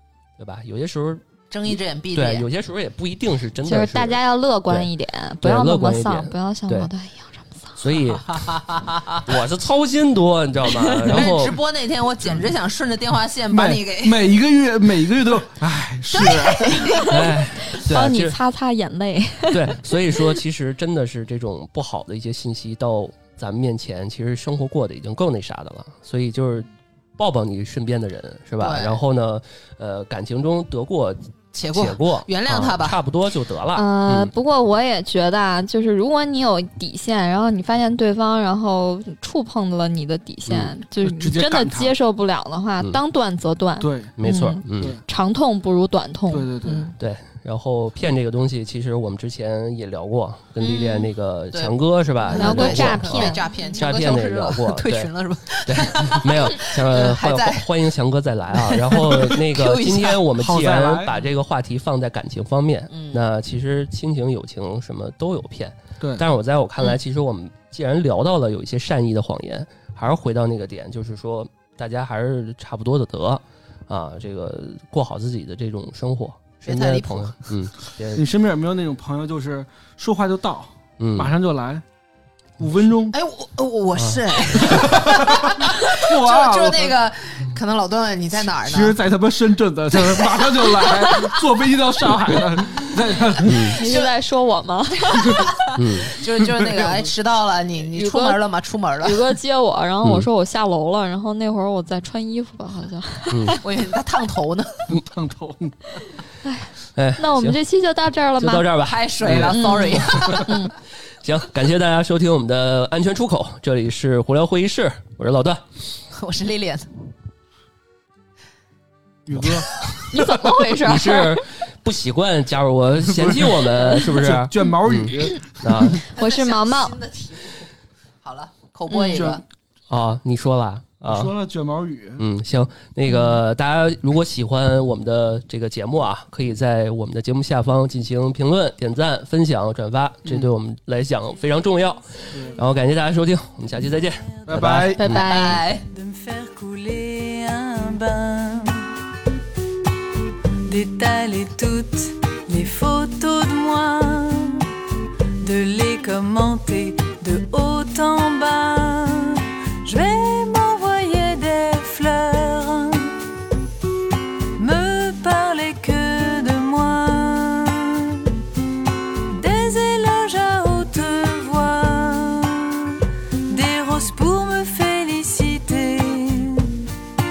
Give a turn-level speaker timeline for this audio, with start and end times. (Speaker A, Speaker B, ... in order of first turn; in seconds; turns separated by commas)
Speaker A: 0.4-1.2, Speaker B: 1.5-2.5, Speaker A: 2.1-4.9, Speaker C: 3.6-7.8, Speaker A: 5.4-6.9, Speaker A: 7.8-11.6, Speaker B: 8.3-9.2, Speaker B: 11.0-14.3, Speaker D: 13.5-16.9, Speaker B: 16.1-17.4, Speaker C: 16.8-20.4, Speaker A: 17.1-18.4, Speaker A: 19.5-31.2, Speaker B: 28.6-29.0, Speaker B: 31.5-33.0, Speaker A: 31.7-34.3, Speaker C: 33.7-46.9, Speaker D: 41.0-41.9, Speaker D: 43.8-44.1, Speaker A: 44.2-45.0, Speaker D: 44.8-45.0, Speaker D: 46.3-46.9, Speaker A: 47.0-55.1, Speaker B: 50.6-57.7, Speaker C: 52.3-53.4, Speaker A: 55.6-78.2, Speaker B: 58.5-60.2, Speaker D: 60.3-61.2, Speaker B: 62.9-63.2, Speaker D: 66.0-66.2, Speaker B: 76.6-77.5, Speaker D: 78.1-81.8, Speaker A: 81.0-81.3, Speaker D: 82.6-83.2, Speaker B: 83.1-89.0, Speaker A: 84.0-84.9, Speaker D: 84.6-86.9, Speaker D: 88.6-93.8, Speaker B: 90.1-91.4, Speaker A: 93.4-93.8, Speaker C: 93.8-95.5, Speaker B: 93.8-94.1, Speaker B: 95.1-99.2, Speaker A: 95.7-96.1, Speaker D: 96.4-97.0, Speaker C: 97.9-98.4, Speaker C: 99.0-103.6, Speaker A: 103.3-103.6, Speaker B: 103.6-104.9, Speaker D: 104.9-106.0, Speaker C: 106.4-108.7, Speaker A: 106.9-107.6, Speaker A: 108.4-110.5, Speaker B: 108.8-110.5, Speaker D: 109.2-109.5, Speaker C: 109.5-110.7, Speaker A: 111.2-115.6, Speaker B: 116.1-116.9, Speaker D: 119.2-119.8, Speaker C: 120.1-121.4, Speaker A: 120.8-126.0, Speaker D: 123.0-125.9, Speaker C: 126.1-127.0, Speaker B: 126.1-127.7, Speaker B: 128.2-129.4, Speaker C: 128.9-129.3, Speaker D: 129.1-129.4, Speaker A: 129.9-131.3, Speaker D: 131.0-132.2, Speaker A: 132.2-145.2, Speaker C: 133.1-133.4, Speaker D: 140.2-140.5, Speaker D: 144.5-145.2, Speaker C: 144.9-145.6, Speaker B: 145.1-145.8, Speaker E: 145.9-149.0, Speaker E: 150.6-154.7, Speaker E: 155.4-163.2, Speaker E: 164.5-168.3, Speaker E: 169.3-176.8